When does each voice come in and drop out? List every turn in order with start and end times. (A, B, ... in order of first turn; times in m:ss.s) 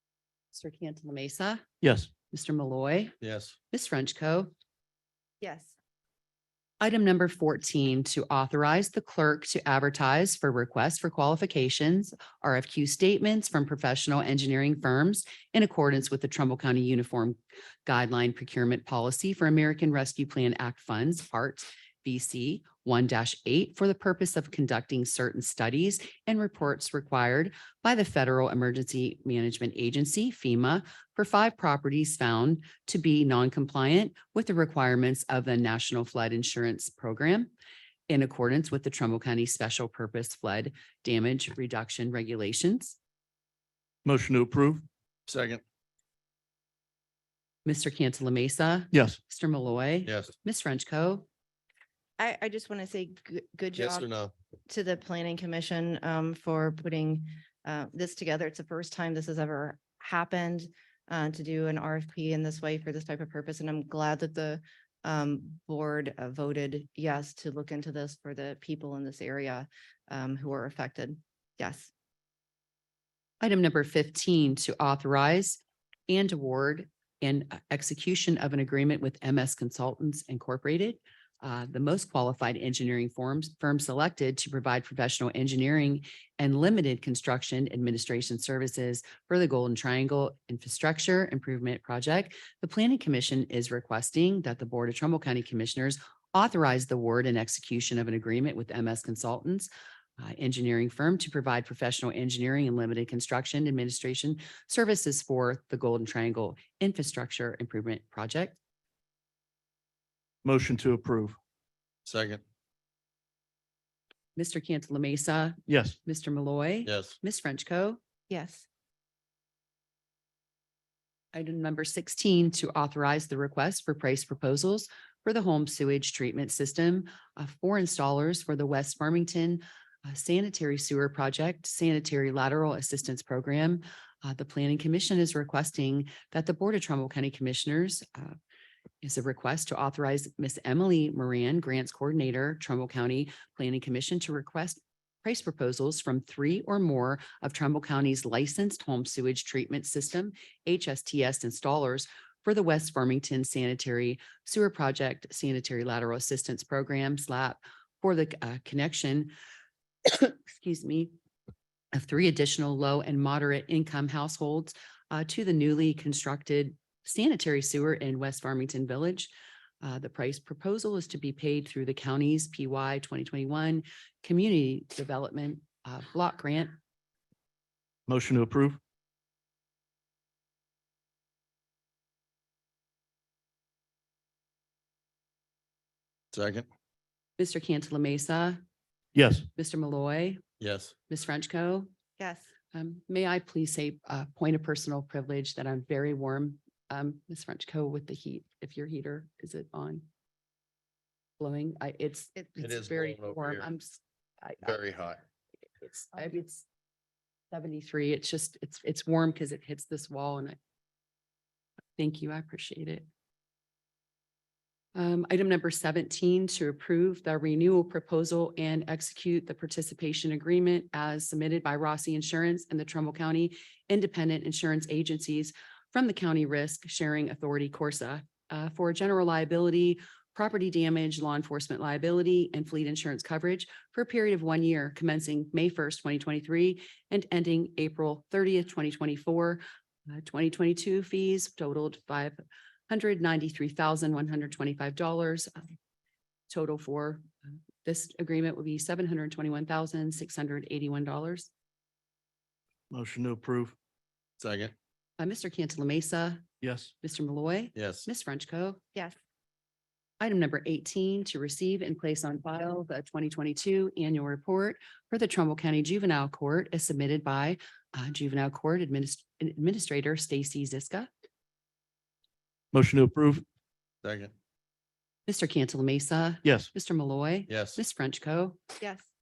0:00.5-0:01.6 A
0:01.8-0:02.1 B
0:02.3-0:03.2 A
0:03.2-0:03.6 C
0:03.7-0:04.5 A
0:05.4-0:05.7 D
0:06.8-0:37.5 A
0:38.1-0:43.0 A
0:44.0-0:44.8 B
0:45.3-0:45.6 C
0:47.6-0:51.3 A
0:48.9-0:49.2 B
0:50.1-0:50.3 C
0:52.2-0:54.1 D
0:53.8-0:54.3 C
0:54.7-1:11.9 D
1:13.4-1:48.6 A
1:50.4-1:51.4 B
1:52.1-1:52.4 C
1:54.4-1:58.0 A
1:55.7-1:56.0 B
1:56.9-1:57.2 C
1:58.3-1:58.6 D
2:01.3-2:18.4 A
2:19.0-2:39.3 A
2:40.1-2:41.1 A
2:41.9-2:56.8 A
2:58.1-2:58.8 B
3:06.3-3:06.7 C
3:07.4-3:08.6 A
3:09.2-3:09.5 B
3:09.6-3:10.4 A
3:10.6-3:10.9 C
3:11.1-3:11.9 A
3:12.2-3:12.5 D
3:12.7-3:20.0 A
3:21.4-3:24.8 A
3:22.6-3:23.7 C
3:24.6-3:25.2 C
3:25.8-3:26.7 A
3:27.5-3:30.6 A
3:32.0-3:33.1 A
3:35.0-4:02.4 A
4:02.9-4:05.6 A
4:06.5-4:07.2 A
4:07.8-4:11.5 A
4:12.9-4:13.8 B
4:14.4-4:14.7 C
4:15.2-4:16.5 A
4:16.6-4:16.9 B
4:17.0-4:18.8 A
4:17.8-4:18.1 C
4:20.2-4:31.1 A
4:32.7-4:33.4 B
4:34.0-4:34.3 C
4:35.3-4:38.6 A
4:36.4-4:36.7 B
4:37.5-4:37.8 C
4:38.8-4:39.1 D